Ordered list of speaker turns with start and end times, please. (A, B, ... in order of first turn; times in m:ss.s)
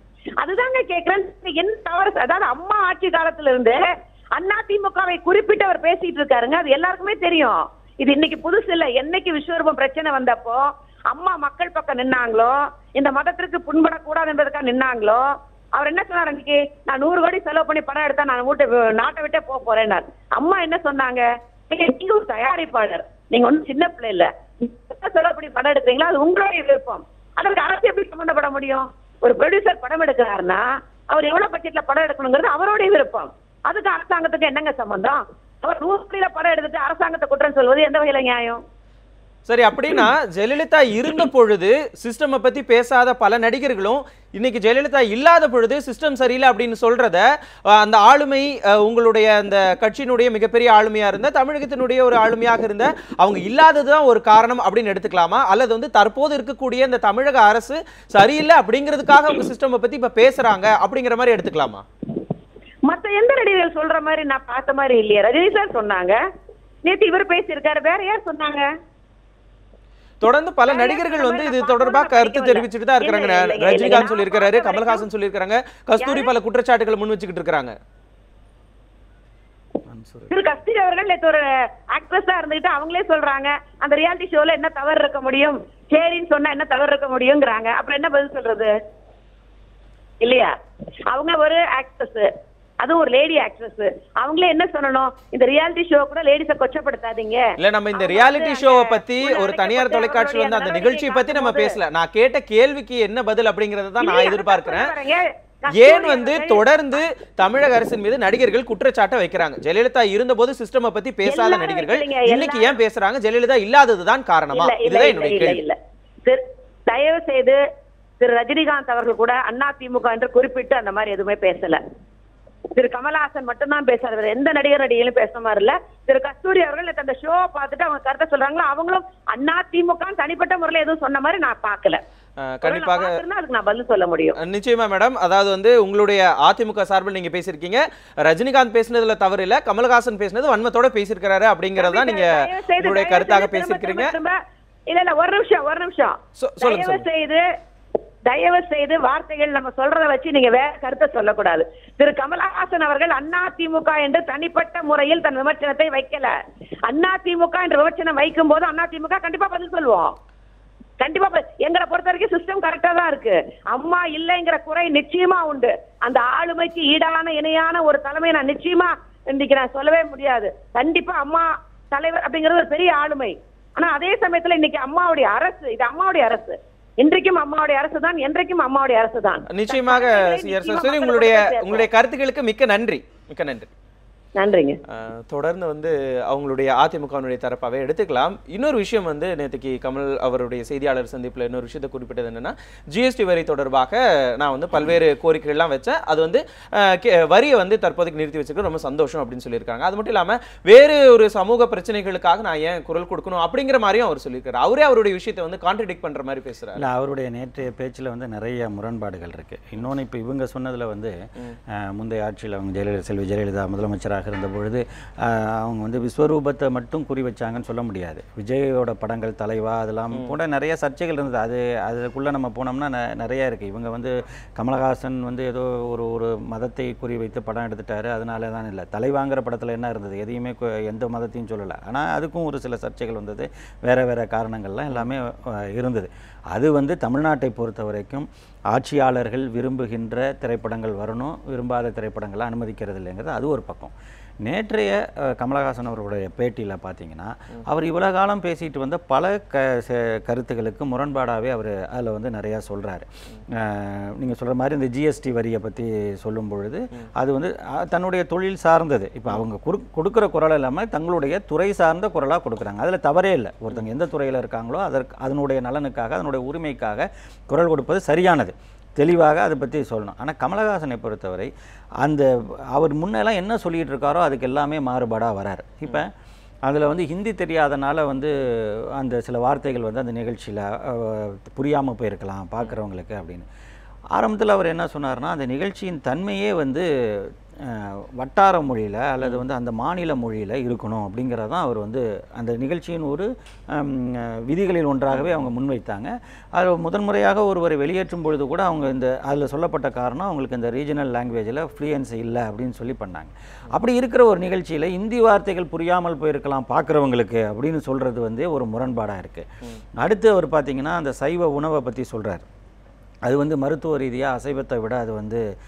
0:00.4-0:38.6 A
0:39.5-1:01.8 B
1:02.9-1:06.2 A
1:06.8-1:08.7 A
1:10.2-1:17.7 B
1:10.7-1:15.0 A
1:16.0-1:16.3 A
1:19.9-1:20.3 C
1:20.3-1:28.7 A
1:30.2-1:30.5 A
1:31.1-1:41.8 A
1:37.6-1:44.9 B
1:44.0-1:46.6 A
1:45.7-1:55.6 B
1:51.2-1:52.8 A
1:54.5-1:57.6 A
1:58.2-2:01.8 A
2:02.7-2:12.0 A
2:12.4-2:13.2 B
2:12.6-2:14.4 A
2:14.4-2:24.1 B
2:21.8-2:27.4 A
2:26.4-2:27.0 B
2:28.2-2:36.3 A
2:36.9-2:40.1 A
2:41.0-3:01.9 A
2:59.5-3:03.7 B
3:04.4-3:04.8 A
3:04.9-3:26.8 B
3:26.8-3:31.1 C
3:31.7-4:31.5 C
4:32.0-4:36.1 C
4:36.6-4:43.4 C
4:44.1-5:09.5 C
4:55.1-4:55.4 B
5:10.0-5:12.4 C
5:13.3-5:15.4 C